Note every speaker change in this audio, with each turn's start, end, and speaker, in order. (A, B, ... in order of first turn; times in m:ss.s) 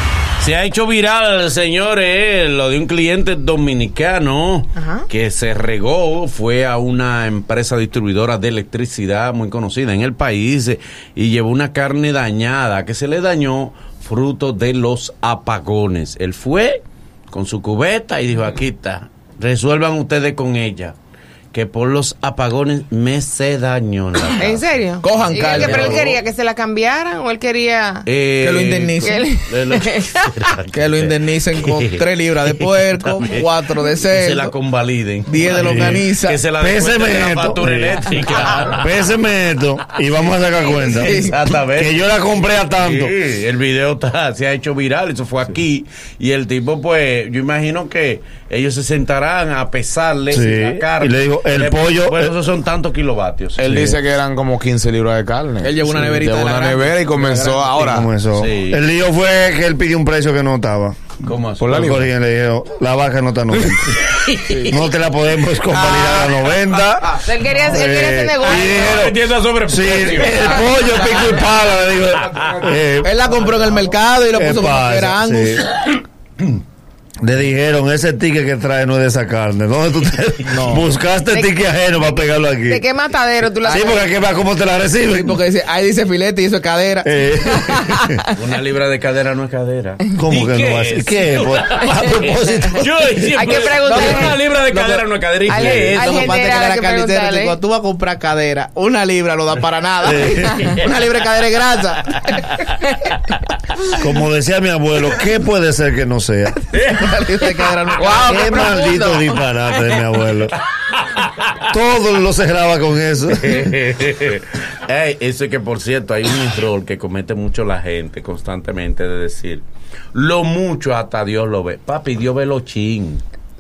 0:00.4-0:21.0 A
0:04.8-0:05.1 B
0:21.5-0:26.2 A
0:24.4-0:28.1 B
0:25.0-0:26.1 C
0:28.0-0:39.1 A
0:28.4-0:29.2 C
0:29.0-0:30.3 B
0:30.7-0:34.5 C
0:35.3-0:36.4 C
0:35.6-0:36.1 D
0:36.6-0:41.2 D
0:40.1-0:42.0 A
0:41.0-0:41.4 C
0:41.7-0:43.2 D
0:42.8-0:54.0 A
0:50.3-0:52.4 D
0:53.6-0:58.1 E
0:55.6-0:58.0 C
0:57.8-1:01.0 D
0:58.3-0:58.8 A
1:01.2-1:01.9 A
1:01.6-1:02.1 E
1:01.7-1:04.0 D
1:04.0-1:04.9 A
1:04.6-1:13.1 D
1:05.7-1:06.4 A
1:07.2-1:09.1 B
1:08.4-1:11.3 A
1:10.3-1:10.6 B
1:12.3-1:12.7 A
1:13.0-1:15.7 C
1:14.4-1:15.7 D
1:17.2-1:22.8 D
1:20.5-1:20.9 C
1:21.3-1:21.5 B
1:22.7-1:24.0 B
1:23.6-1:25.4 D
1:23.7-1:24.0 C
1:25.1-1:27.9 C
1:27.0-1:28.2 D
1:28.3-1:36.5 A
1:30.2-1:33.2 D
1:33.3-1:34.4 B
1:33.8-1:42.5 C
1:35.5-1:37.6 B
1:40.0-1:40.8 D
1:44.0-1:46.6 D
1:46.7-1:47.2 A
1:46.9-1:48.8 C
1:47.9-1:48.4 A
1:48.2-1:50.5 D
1:48.3-1:49.9 B
1:50.9-1:51.5 A
1:51.7-1:53.7 D
1:53.3-2:03.2 A